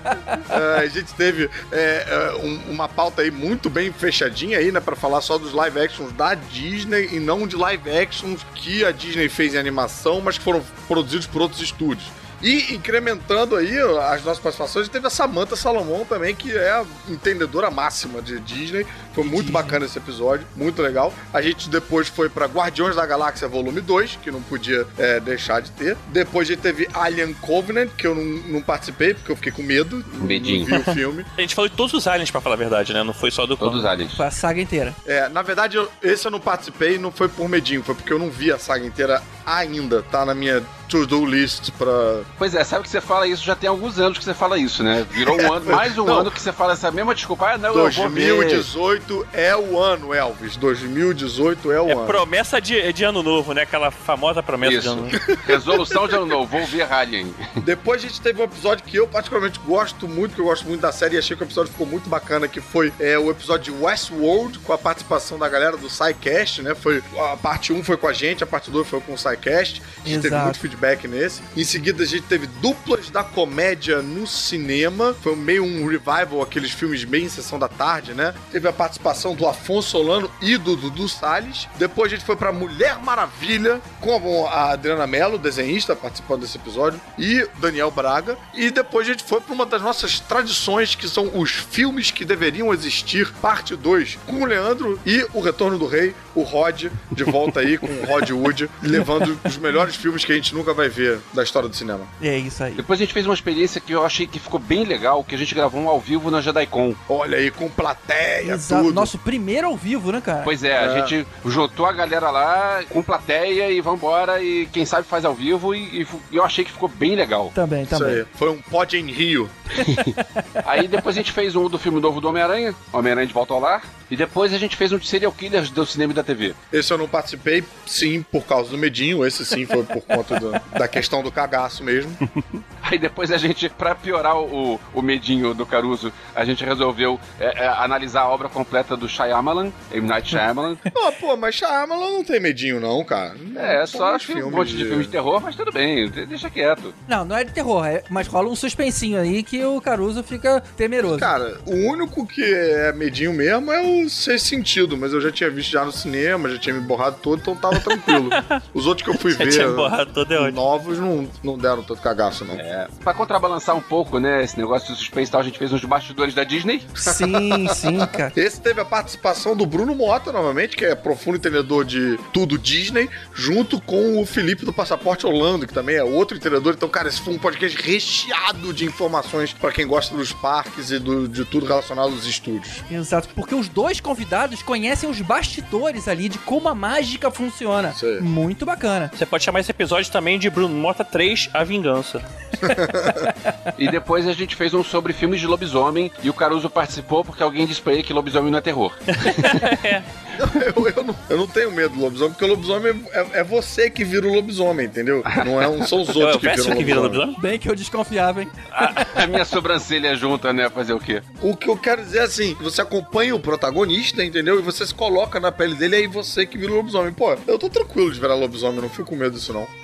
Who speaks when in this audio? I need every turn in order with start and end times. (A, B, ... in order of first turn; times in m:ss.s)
0:00.5-0:31.3 A
0:19.2-0:19.8 B
0:30.2-0:30.7 C
0:31.4-0:33.9 D
0:33.6-0:34.2 C
0:34.1-0:35.0 B
0:35.0-0:42.3 A
0:42.4-0:48.7 C
0:45.2-0:46.4 A
0:47.7-0:52.2 A
0:51.9-0:55.2 D
0:54.6-0:57.4 C
0:55.2-0:56.2 A
0:57.6-1:42.1 A
1:10.0-1:10.6 B
1:42.2-1:42.8 B
1:42.8-1:47.0 C
1:47.1-1:49.1 A
1:48.4-1:50.5 B
1:50.4-1:57.5 C
1:50.7-1:51.1 A
1:57.5-1:58.2 B
1:57.9-1:59.6 A
1:59.8-2:00.4 B
1:59.8-2:00.1 C
2:00.6-2:06.6 C
2:06.7-2:12.2 A
2:12.8-2:20.9 C
2:20.9-2:25.1 A
2:23.6-2:26.9 C
2:27.1-2:31.3 B
2:31.0-2:42.6 A
2:37.9-2:38.6 D
2:39.2-2:40.6 D
2:42.6-2:46.9 C
2:47.0-2:48.4 B
2:47.0-3:02.8 A
3:02.9-3:09.1 B
3:07.9-3:08.2 A
3:09.1-3:12.3 D
3:12.6-3:13.3 A
3:13.2-3:13.6 B
3:13.8-3:19.6 C
3:19.2-3:20.1 D
3:20.4-3:27.2 A
3:25.3-3:25.7 C
3:26.1-3:27.4 D
3:27.4-3:29.1 B
3:28.7-3:31.2 C
3:31.4-3:39.7 A